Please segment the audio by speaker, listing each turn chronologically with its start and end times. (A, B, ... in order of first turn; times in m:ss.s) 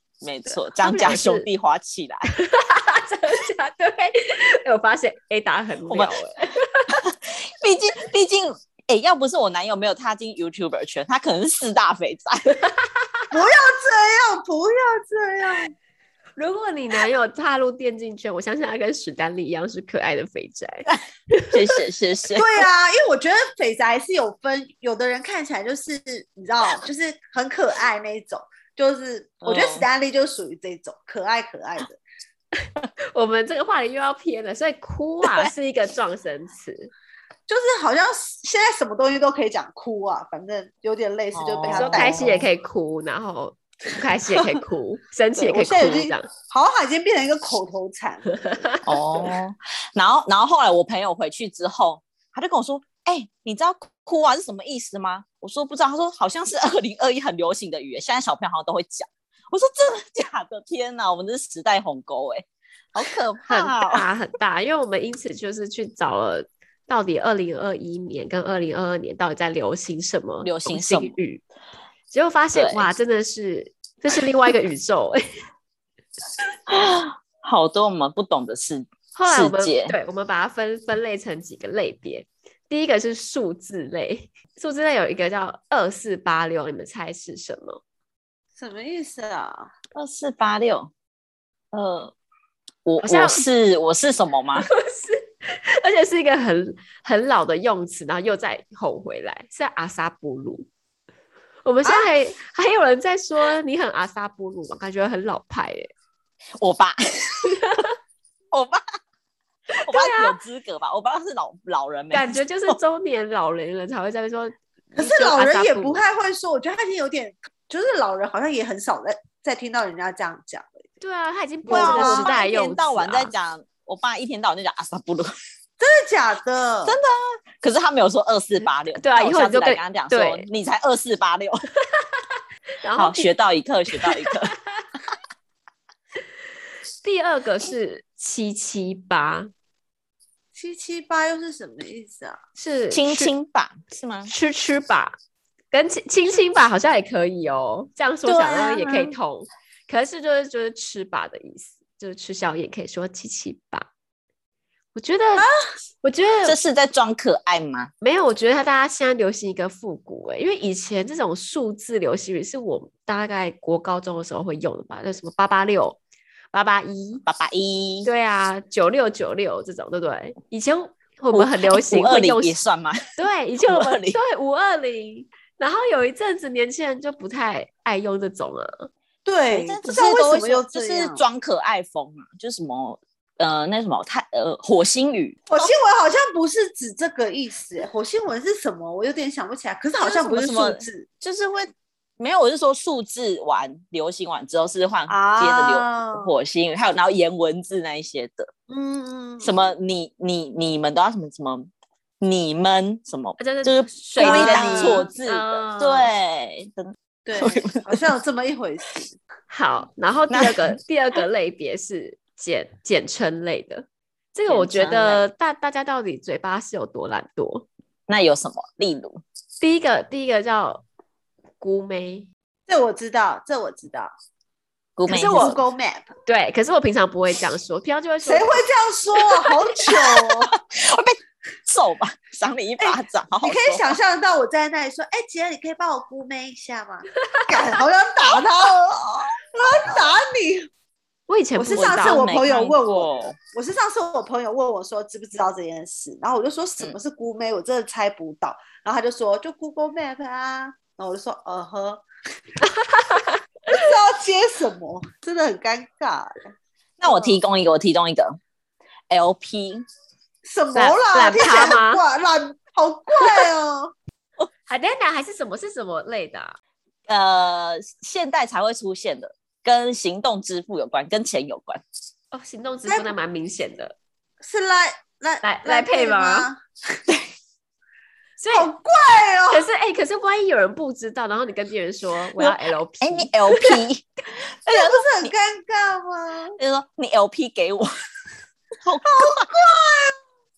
0:00.2-0:02.3 A
0:00.8-0:01.5 B
0:02.3-0:06.9 B
0:05.9-0:12.6 A
0:13.3-0:15.7 C
0:16.4-0:21.6 B
0:21.5-0:22.5 A
0:22.4-0:32.0 C
0:29.4-0:29.8 A
0:33.1-0:36.9 B
0:35.2-0:35.5 A
0:37.5-0:42.3 C
0:41.3-0:42.4 A
0:41.7-0:46.3 B
0:45.4-0:48.6 C
0:48.3-0:48.8 B
0:48.9-1:04.0 A
1:03.5-1:11.4 B
1:10.4-1:11.1 A
1:12.1-1:15.2 B
1:12.5-1:12.9 A
1:16.7-1:20.0 A
1:19.2-1:27.8 B
1:28.6-1:29.7 C
1:30.0-1:30.9 A
1:31.7-1:32.1 A
1:32.9-1:34.7 A
1:33.0-1:33.4 B
1:34.6-1:40.7 B
1:41.6-1:45.9 B
1:41.8-1:42.1 C
1:46.6-1:47.7 A
1:47.6-1:47.9 B
1:48.5-1:48.8 A
1:49.7-1:50.4 B
1:49.8-1:52.8 A
1:52.1-1:56.0 B
1:55.0-2:00.8 C
2:01.0-2:03.3 B
2:01.7-2:02.4 C
2:01.7-2:05.3 A
2:05.8-2:07.0 C
2:06.9-2:11.6 A
2:09.0-2:10.5 B
2:12.8-2:13.3 B
2:13.0-2:14.6 A
2:14.0-2:14.3 B
2:17.0-2:19.5 B
2:20.5-2:22.4 C
2:22.6-2:23.3 B
2:22.9-2:24.3 A
2:24.3-2:25.2 B
2:25.7-2:33.9 B
2:28.3-2:29.1 A
2:35.0-2:35.5 B
2:36.0-2:36.6 B
2:36.4-2:37.9 A
2:38.0-2:46.0 B
2:46.5-2:47.2 B
2:47.3-2:48.1 A
2:48.0-2:52.6 B
2:51.3-2:53.1 A
2:53.2-2:58.9 B
2:53.7-2:54.2 A
2:59.2-3:01.2 C
2:59.5-3:05.4 A
3:05.5-3:11.1 C
3:10.0-3:18.5 A
3:15.1-3:16.3 C
3:18.7-3:19.8 C
3:19.4-3:21.7 A
3:22.2-3:28.0 A
3:23.4-3:26.1 B
3:24.2-3:25.1 C
3:27.2-3:29.2 C
3:29.5-3:37.7 B
3:30.3-3:30.8 A
3:34.5-3:35.2 A
3:38.1-3:39.2 A
3:39.6-3:40.8 B
3:41.6-3:42.3 B
3:42.7-3:44.1 C
3:45.0-3:45.6 A
3:45.1-3:46.1 C
3:45.2-3:45.6 B
3:46.3-3:48.6 B
3:48.2-3:50.6 C
3:49.9-3:53.8 A
3:52.8-4:00.7 C
4:01.3-4:02.2 B
4:01.6-4:12.0 C
4:01.8-4:03.4 A
4:12.7-4:13.4 B
4:13.7-4:16.5 C
4:17.0-4:18.4 A
4:17.0-4:17.4 C
4:19.1-4:19.8 A
4:20.4-4:23.9 C
4:20.8-4:22.0 B
4:24.7-4:26.6 B
4:27.1-4:31.8 A
4:32.3-4:34.0 B
4:32.9-4:33.1 C
4:34.4-4:36.6 C
4:35.4-4:36.5 B
4:38.4-4:38.7 B
4:38.5-4:39.7 C
4:39.5-4:43.8 B
4:42.4-4:44.1 A
4:44.7-4:45.3 A
4:44.7-4:46.6 C
4:46.6-4:47.9 A
4:48.8-4:49.5 A
4:49.0-4:50.2 C